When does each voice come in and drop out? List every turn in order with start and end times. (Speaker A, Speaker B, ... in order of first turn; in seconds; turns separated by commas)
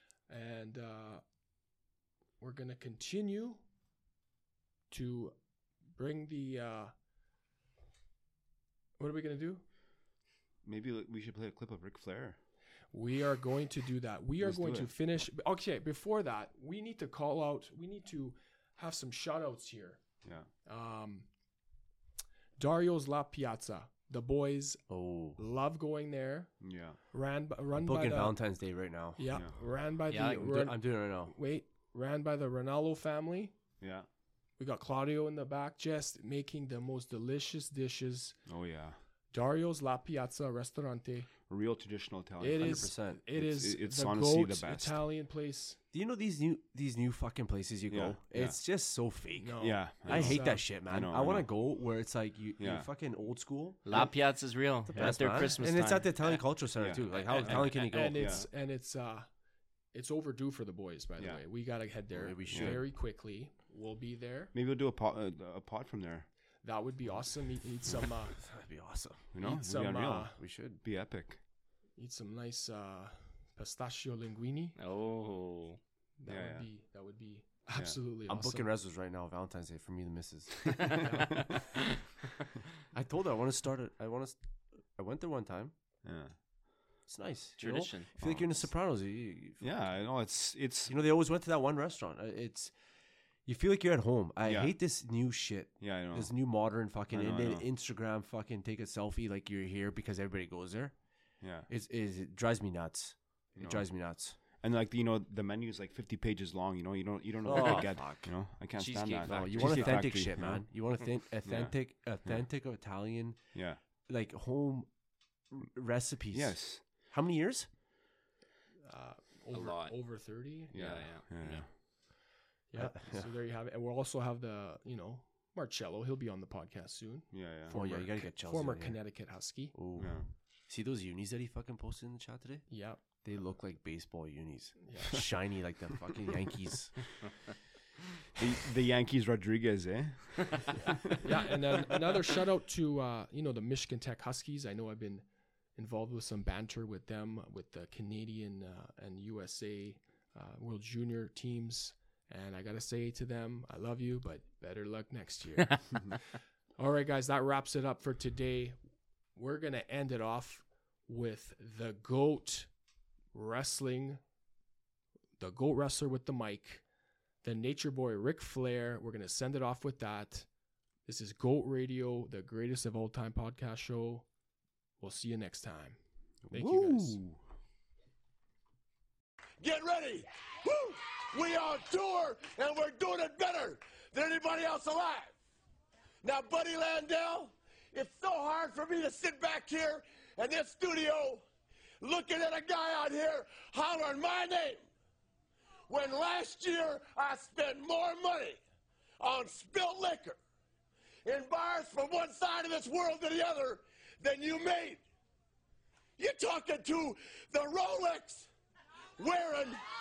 Speaker A: 0.3-1.2, Speaker A: 2.4-3.6, Speaker A: 4.9-5.3, Speaker A: 6.0-6.9, Speaker A: 9.0-9.6, Speaker B: 10.6-12.4, Speaker A: 12.9-20.0, Speaker B: 14.4-14.9, Speaker A: 20.6-21.3, Speaker A: 22.6-26.6, Speaker C: 24.9-25.4, Speaker B: 26.6-27.0, Speaker A: 27.1-28.4, Speaker C: 27.8-29.3, Speaker A: 29.2-33.5, Speaker D: 30.1-30.5, Speaker C: 30.2-31.4, Speaker B: 33.8-34.1, Speaker A: 34.6-38.4, Speaker B: 38.5-39.0, Speaker A: 39.3-41.3, Speaker B: 41.5-45.0, Speaker A: 42.4-45.8, Speaker C: 42.6-43.2, Speaker C: 45.9-54.1, Speaker B: 47.9-48.6, Speaker A: 49.4-50.7, Speaker B: 49.6-51.5, Speaker B: 52.6-52.9, Speaker D: 53.9-56.5, Speaker C: 54.9-58.5, Speaker B: 56.8-58.5, Speaker D: 57.1-57.9, Speaker A: 57.9-59.3, Speaker A: 59.9-64.5, Speaker C: 62.1-62.9, Speaker B: 62.5-62.8, Speaker B: 64.5-66.3, Speaker A: 66.6-68.4, Speaker C: 68.4-69.3, Speaker B: 69.3-71.4, Speaker A: 69.4-70.4, Speaker C: 70.4-70.8, Speaker A: 72.0-74.8, Speaker D: 74.8-75.8, Speaker A: 76.2-78.7, Speaker B: 76.3-76.7, Speaker C: 78.3-81.5, Speaker B: 80.8-81.4, Speaker A: 81.0-81.4, Speaker C: 82.9-84.4, Speaker C: 84.9-85.7, Speaker B: 86.0-86.3, Speaker C: 87.1-89.9, Speaker D: 87.6-88.1, Speaker B: 88.2-88.7, Speaker B: 89.6-90.9, Speaker C: 90.9-92.7, Speaker C: 93.5-101.0, Speaker B: 94.5-94.8, Speaker B: 95.8-96.3, Speaker B: 97.1-97.7, Speaker B: 101.4-101.7, Speaker C: 101.7-104.4, Speaker B: 103.6-110.7, Speaker C: 107.4-108.3, Speaker D: 107.5-107.9, Speaker D: 108.8-110.2, Speaker C: 109.2-113.4, Speaker B: 111.5-111.7, Speaker B: 113.5-113.8, Speaker C: 114.1-114.9, Speaker C: 115.5-117.7, Speaker B: 116.3-116.8, Speaker A: 118.8-120.8, Speaker D: 119.5-119.9, Speaker B: 120.7-121.7, Speaker D: 120.7-121.6, Speaker A: 122.7-129.7, Speaker C: 122.8-123.3, Speaker B: 127.3-127.8, Speaker C: 127.7-129.0, Speaker C: 129.7-132.7, Speaker B: 130.0-130.3, Speaker A: 132.7-133.0, Speaker C: 133.2-136.9, Speaker A: 134.8-135.2, Speaker B: 138.4-140.9, Speaker A: 141.2-158.8, Speaker A: 159.3-162.7, Speaker A: 163.3-164.2, Speaker A: 165.4-166.8, Speaker A: 167.4-170.5, Speaker A: 171.1-174.3, Speaker A: 175.0-176.0, Speaker B: 176.5-177.4, Speaker A: 176.5-177.2, Speaker C: 176.6-177.0, Speaker E: 179.6-185.3, Speaker E: 186.2-191.4, Speaker E: 192.0-194.8, Speaker E: 195.9-198.6, Speaker E: 199.2-200.4, Speaker E: 201.2-205.0, Speaker E: 206.2-208.5, Speaker E: 209.2-209.8